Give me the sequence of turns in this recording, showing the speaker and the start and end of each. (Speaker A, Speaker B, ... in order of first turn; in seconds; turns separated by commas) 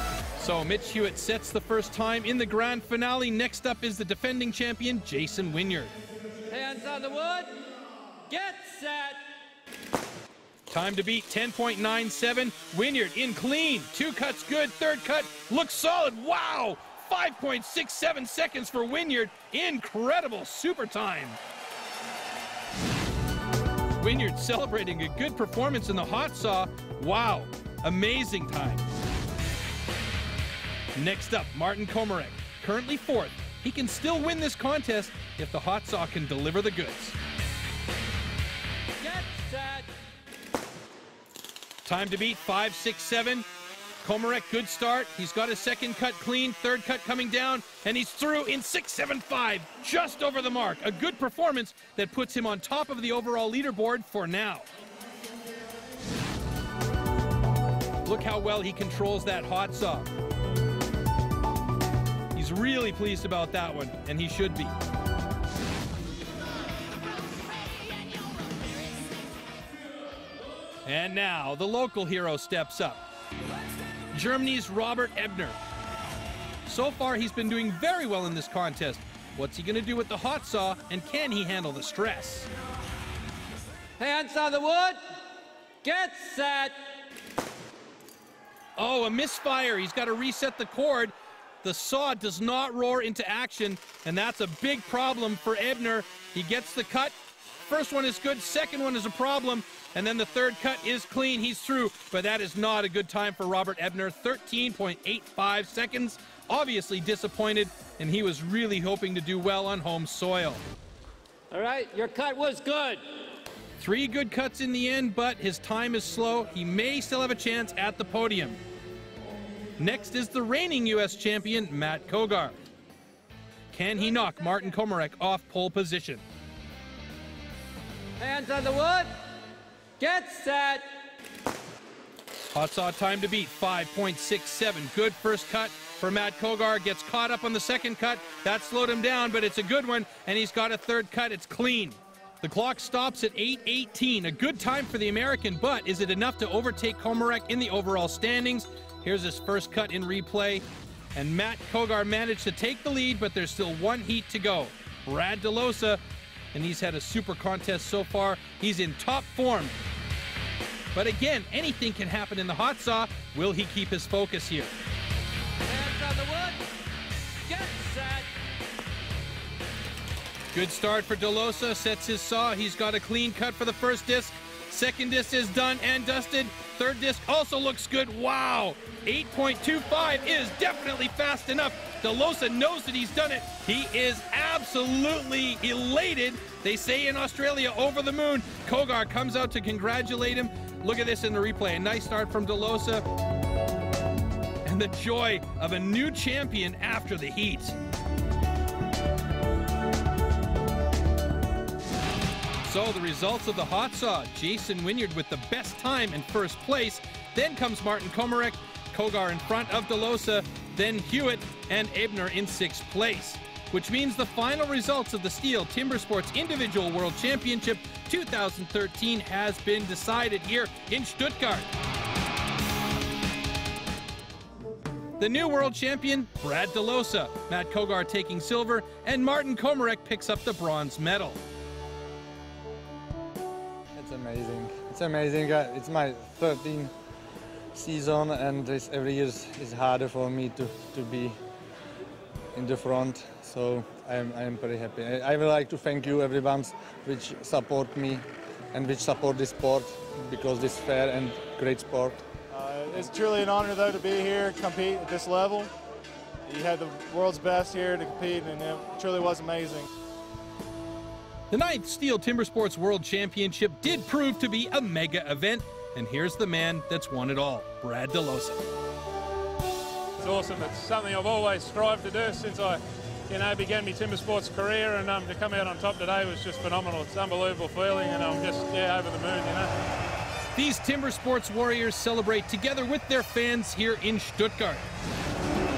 Speaker A: 0.4-5.9, Speaker B: 6.5-7.6, Speaker B: 8.3-9.2, Speaker A: 10.7-21.4, Speaker A: 24.0-28.9, Speaker A: 30.9-37.2, Speaker B: 39.0-39.9, Speaker A: 41.8-43.5, Speaker A: 44.0-54.7, Speaker A: 58.0-60.1, Speaker A: 62.3-64.7, Speaker A: 70.8-73.0, Speaker A: 74.1-75.6, Speaker A: 76.6-82.5, Speaker B: 84.0-85.0, Speaker B: 85.8-86.8, Speaker A: 88.8-97.1, Speaker A: 97.7-110.6, Speaker B: 111.5-113.0, Speaker A: 113.8-118.6, Speaker A: 119.8-122.6, Speaker A: 123.7-126.2, Speaker B: 128.2-129.1, Speaker B: 130.0-130.9, Speaker A: 132.5-156.0, Speaker A: 156.5-159.8, Speaker A: 160.9-164.7, Speaker B: 165.7-166.6, Speaker B: 167.4-168.3, Speaker A: 170.5-193.0, Speaker A: 194.6-197.8, Speaker A: 202.6-221.7, Speaker A: 225.2-231.4, Speaker C: 233.9-236.9, Speaker C: 237.7-241.3, Speaker C: 242.5-252.2, Speaker D: 252.5-255.7, Speaker D: 256.5-259.9, Speaker A: 261.5-268.6, Speaker E: 270.2-279.7, Speaker A: 280.5-284.9